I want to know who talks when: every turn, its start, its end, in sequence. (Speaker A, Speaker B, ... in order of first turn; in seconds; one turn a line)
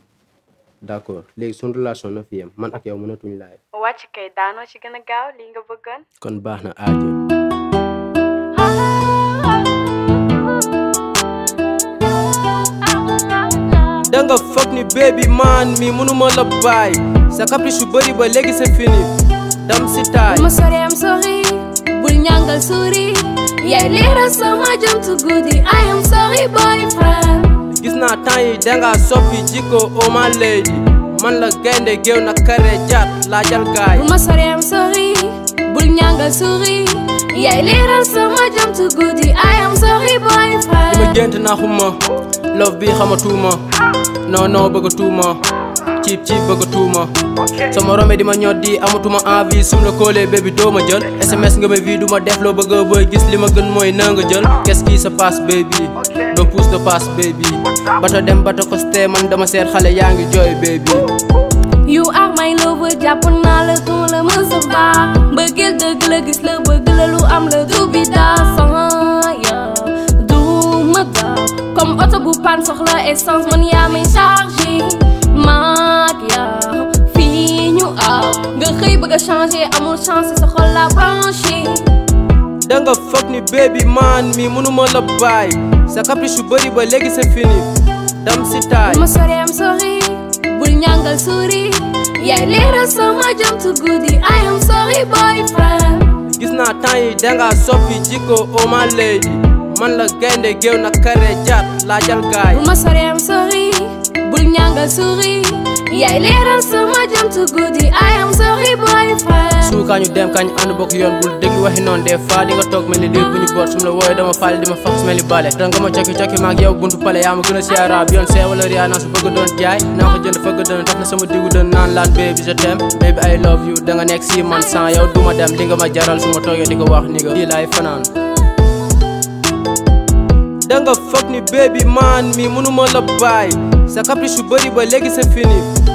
Speaker A: 0.8-3.6
Speaker B: 3.7-6.0
Speaker A: 6.2-7.2
Speaker C: 8.6-14.1
Speaker A: 14.1-20.5
Speaker C: 20.3-27.6
Speaker A: 27.7-34.1
Speaker C: 34.0-41.2
Speaker A: 40.9-42.0
Speaker A: 42.5-43.6
Speaker A: 44.3-61.1
Speaker C: 61.9-81.9
Speaker A: 82.6-87.7
Speaker A: 88.2-89.1
Speaker C: 88.8-96.2
Speaker A: 96.3-102.7
Speaker C: 102.5-109.7
Speaker A: 109.6-128.1
Speaker A: 130.7-135.7